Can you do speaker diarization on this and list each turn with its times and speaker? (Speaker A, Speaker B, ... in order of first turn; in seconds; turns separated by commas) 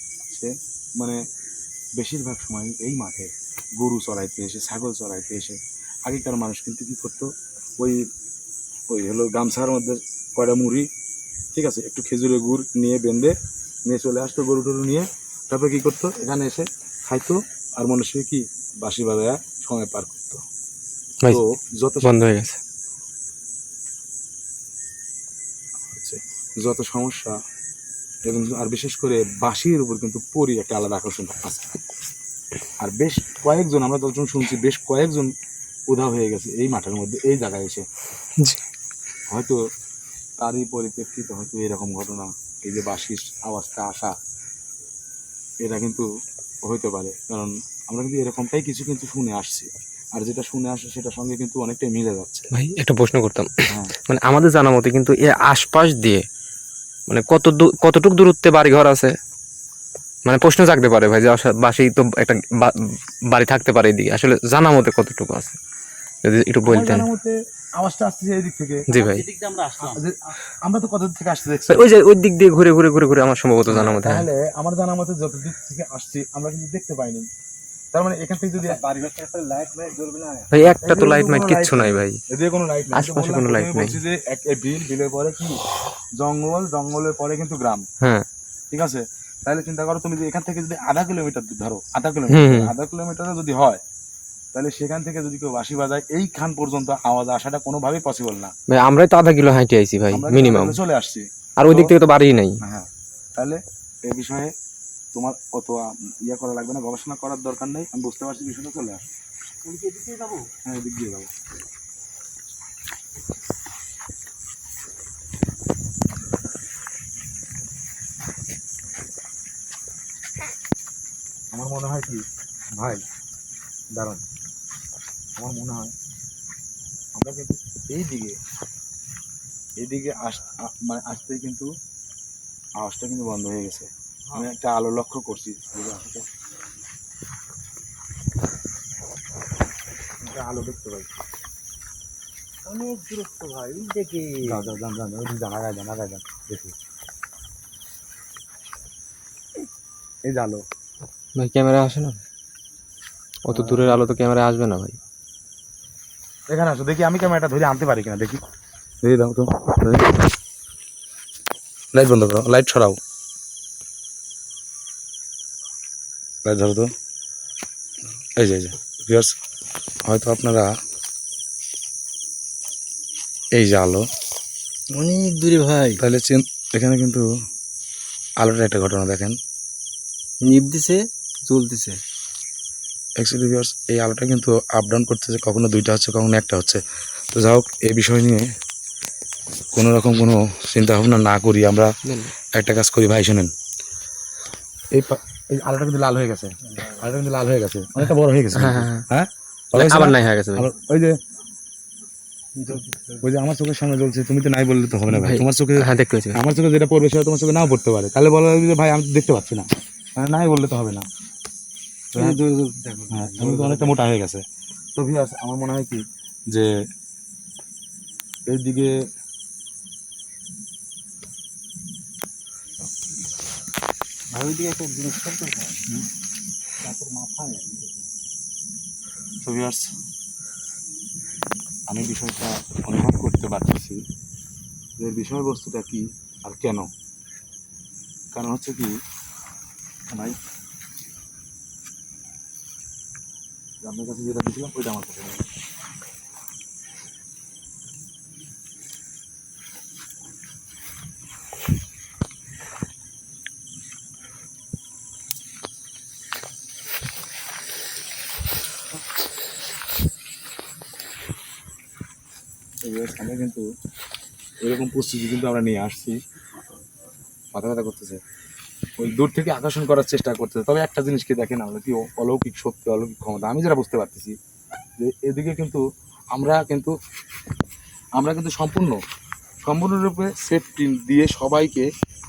Speaker A: 0.3-1.2, Speaker A: 2.0-7.3, Speaker A: 8.9-10.9, Speaker A: 11.6-13.3, Speaker A: 13.9-20.4, Speaker A: 21.3-22.2, Speaker B: 22.0-22.6, Speaker A: 25.9-27.4, Speaker A: 28.3-31.7, Speaker A: 32.8-35.3, Speaker A: 35.9-37.9, Speaker A: 39.3-39.6, Speaker A: 40.4-44.1, Speaker A: 45.6-46.1, Speaker A: 46.6-52.5, Speaker B: 52.5-56.3, Speaker B: 57.1-59.1, Speaker B: 60.3-65.6, Speaker B: 66.2-67.1, Speaker A: 66.7-68.9, Speaker C: 68.9-70.1, Speaker B: 68.9-69.3, Speaker A: 69.8-71.9, Speaker B: 71.7-74.3, Speaker A: 73.7-77.3, Speaker A: 77.9-78.8, Speaker C: 78.6-80.5, Speaker B: 80.5-82.2, Speaker A: 80.6-85.6, Speaker B: 82.9-84.0, Speaker A: 86.2-87.8, Speaker B: 88.0-88.3, Speaker A: 88.7-93.8, Speaker B: 92.3-92.7, Speaker A: 94.5-98.5, Speaker B: 98.7-100.8, Speaker A: 100.1-102.0, Speaker B: 101.6-102.6, Speaker A: 102.6-104.5, Speaker A: 105.2-109.0, Speaker C: 109.6-110.5, Speaker A: 110.7-111.3, Speaker A: 121.5-122.2, Speaker A: 122.8-123.0, Speaker A: 123.9-124.2, Speaker A: 125.4-125.9, Speaker A: 127.2-128.4, Speaker A: 129.8-131.7, Speaker A: 132.8-136.3, Speaker A: 140.2-141.2, Speaker C: 142.7-144.6, Speaker A: 144.4-146.7, Speaker A: 150.2-150.6, Speaker B: 151.3-152.2, Speaker B: 153.4-155.0, Speaker A: 153.5-154.0, Speaker A: 156.5-158.4, Speaker A: 159.0-160.2, Speaker A: 161.9-163.0, Speaker A: 166.4-166.9, Speaker A: 168.4-169.4, Speaker A: 170.1-170.7, Speaker A: 173.6-174.1, Speaker C: 174.9-176.0, Speaker A: 176.0-177.2, Speaker A: 178.4-179.4, Speaker C: 180.4-182.0, Speaker A: 183.2-186.8, Speaker A: 187.3-188.5, Speaker A: 189.8-191.9, Speaker B: 192.0-192.3, Speaker A: 192.5-193.5, Speaker A: 194.9-201.2, Speaker B: 198.6-199.1, Speaker B: 199.7-200.7, Speaker C: 202.6-203.2, Speaker A: 202.7-211.1, Speaker B: 205.1-206.4, Speaker C: 212.2-214.0, Speaker A: 213.1-214.4, Speaker A: 215.0-216.7, Speaker A: 218.5-219.0, Speaker C: 224.3-225.8, Speaker A: 226.8-228.1, Speaker A: 229.4-229.9, Speaker A: 231.9-234.0, Speaker A: 235.0-236.9, Speaker A: 238.3-238.9, Speaker A: 240.1-240.4, Speaker A: 243.8-245.4, Speaker A: 262.8-263.6, Speaker A: 264.6-266.2, Speaker A: 267.6-268.2, Speaker A: 269.0-274.4, Speaker A: 275.0-275.8, Speaker A: 276.3-276.9, Speaker A: 278.2-279.0, Speaker A: 279.6-281.9